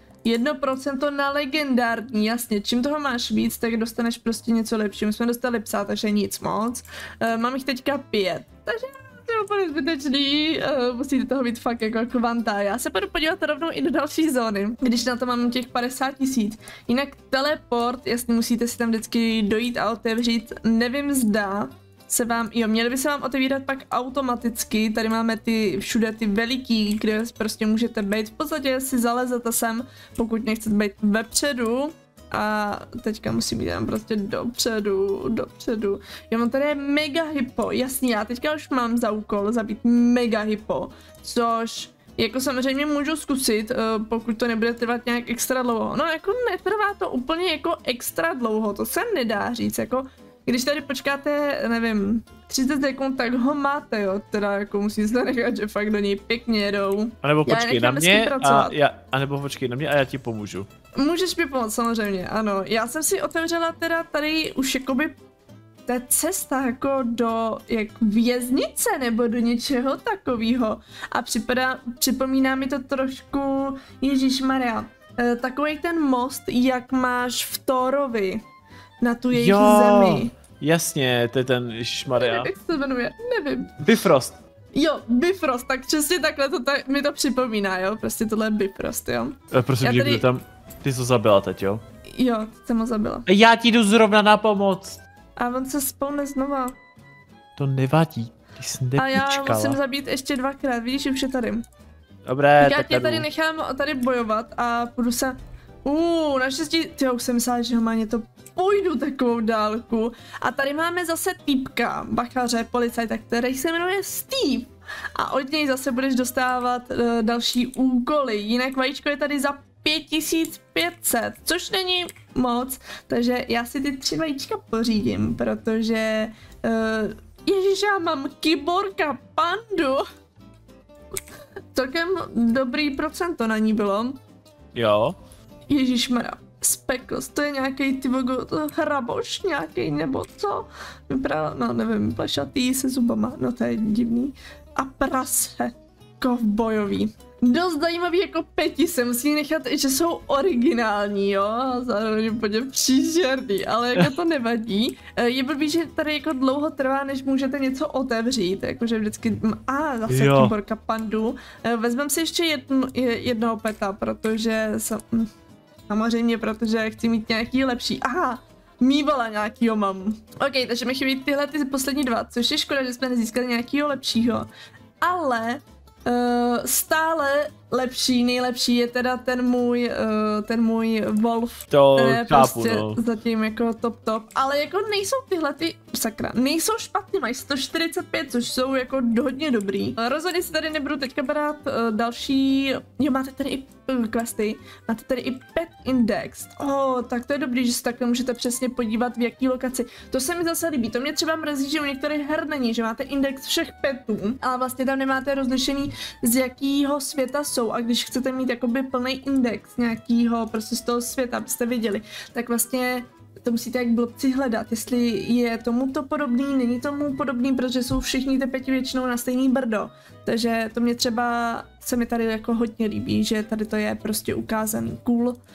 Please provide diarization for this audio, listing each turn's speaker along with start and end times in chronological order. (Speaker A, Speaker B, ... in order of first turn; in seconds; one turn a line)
Speaker A: 0.2-58.8
Speaker B: 57.2-60.7
Speaker A: 61.0-65.2
Speaker A: 65.9-78.4
Speaker A: 79.0-80.3
Speaker B: 79.3-82.5
Speaker A: 82.1-83.8
Speaker B: 83.8-84.4
Speaker A: 84.8-90.2
Speaker B: 89.5-91.8
Speaker A: 92.1-93.2
Speaker B: 93.3-95.0
Speaker A: 95.4-96.8
Speaker B: 97.6-99.8
Speaker A: 99.0-101.6
Speaker B: 102.3-103.3
Speaker A: 102.6-130.1
Speaker A: 131.7-134.2
Speaker B: 134.8-135.2
Speaker A: 135.7-165.3
Speaker B: 160.1-160.6
Speaker A: 165.9-174.5
Speaker A: 175.0-225.4
Speaker B: 181.7-183.0